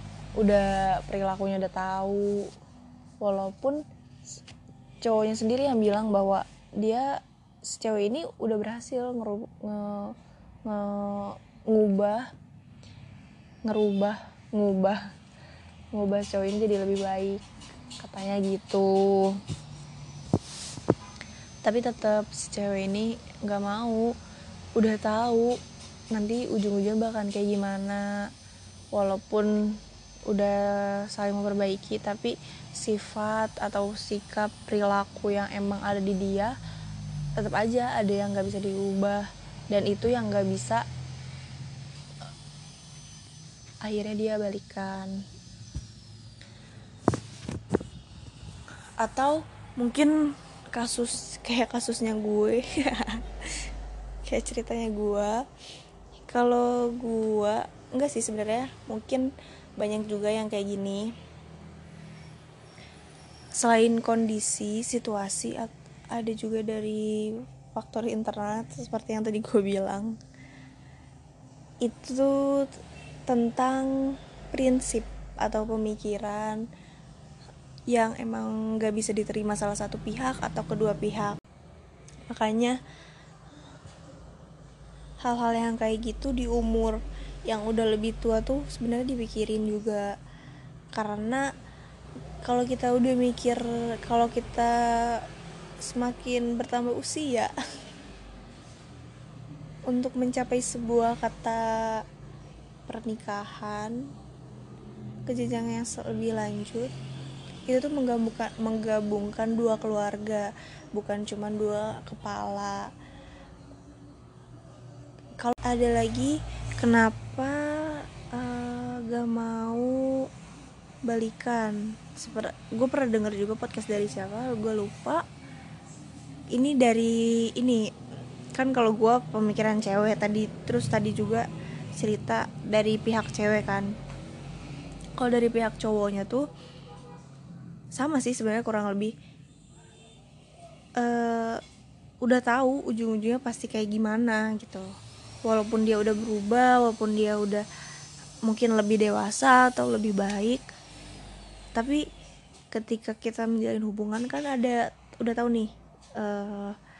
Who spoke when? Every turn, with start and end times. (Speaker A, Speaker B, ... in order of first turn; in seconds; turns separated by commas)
Speaker A: 0.4-2.5, Speaker A: 3.2-3.8, Speaker A: 5.0-10.1, Speaker A: 10.7-12.3, Speaker A: 13.6-15.0, Speaker A: 15.9-17.4, Speaker A: 18.0-19.4, Speaker A: 21.6-24.1, Speaker A: 24.8-25.5, Speaker A: 26.1-28.1, Speaker A: 28.9-29.8, Speaker A: 30.3-30.6, Speaker A: 31.1-36.5, Speaker A: 37.4-40.8, Speaker A: 43.8-45.1, Speaker A: 49.0-50.1, Speaker A: 50.7-53.3, Speaker A: 54.3-55.4, Speaker A: 56.3-59.3, Speaker A: 59.8-61.1, Speaker A: 63.6-70.2, Speaker A: 71.8-72.7, Speaker A: 73.3-76.6, Speaker A: 77.9-81.4, Speaker A: 82.3-82.8, Speaker A: 85.2-90.1, Speaker A: 90.9-91.4, Speaker A: 92.4-94.7, Speaker A: 95.9-97.5, Speaker A: 99.9-102.0, Speaker A: 102.9-104.0, Speaker A: 105.3-106.9, Speaker A: 107.7-112.9, Speaker A: 115.4-120.2, Speaker A: 121.1-125.2, Speaker A: 126.5-127.8, Speaker A: 128.5-131.4, Speaker A: 132.0-133.9, Speaker A: 135.2-136.4, Speaker A: 138.0-139.1, Speaker A: 141.0-141.6, Speaker A: 142.2-144.8, Speaker A: 145.4-147.6, Speaker A: 148.4-150.6, Speaker A: 151.7-152.0, Speaker A: 152.7-156.7